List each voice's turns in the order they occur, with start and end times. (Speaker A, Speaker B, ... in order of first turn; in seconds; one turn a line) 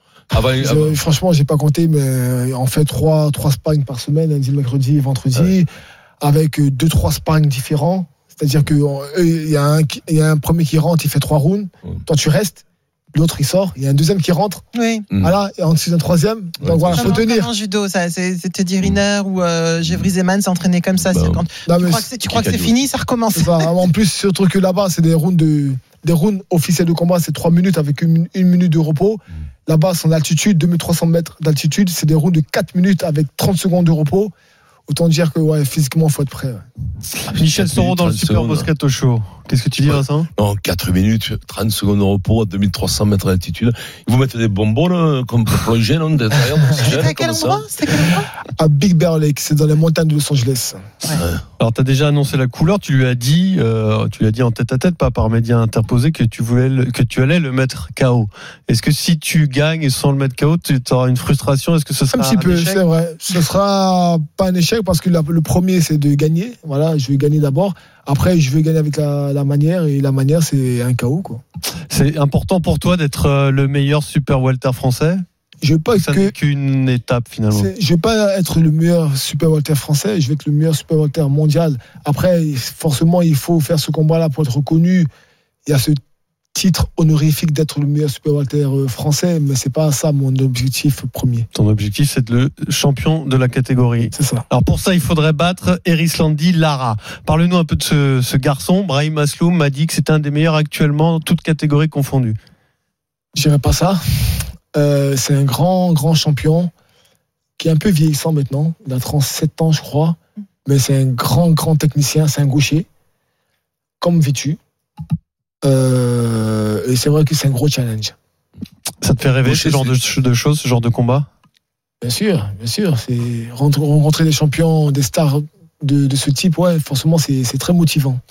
Speaker A: 0.3-1.0
Speaker B: 0.6-5.7
Speaker B: 6.2-12.6
Speaker B: 13.1-14.6
Speaker C: 14.7-15.1
Speaker A: 15.1-15.4
Speaker B: 15.2-17.5
Speaker A: 16.6-17.2
Speaker C: 16.9-23.8
Speaker A: 21.0-21.4
Speaker B: 21.6-22.1
Speaker A: 22.2-22.7
Speaker B: 23.3-34.3
Speaker B: 34.9-36.6
Speaker A: 37.3-38.7
Speaker D: 37.3-40.3
Speaker A: 39.8-47.6
Speaker C: 46.8-48.3
Speaker B: 48.6-50.8
Speaker D: 51.6-62.8
Speaker B: 62.1-71.4
Speaker D: 71.9-75.2
Speaker B: 75.6-76.3
Speaker D: 75.9-77.7
Speaker B: 77.5-85.1
Speaker B: 85.7-86.0
Speaker B: 86.5-91.5
Speaker D: 91.5-102.4
Speaker B: 94.1-94.4
Speaker B: 103.3-104.0
Speaker B: 104.7-106.7
Speaker B: 107.6-112.8
Speaker B: 114.0-114.6
Speaker B: 115.6-118.1
Speaker D: 119.0-121.3
Speaker A: 119.4-119.9
Speaker B: 122.0-128.2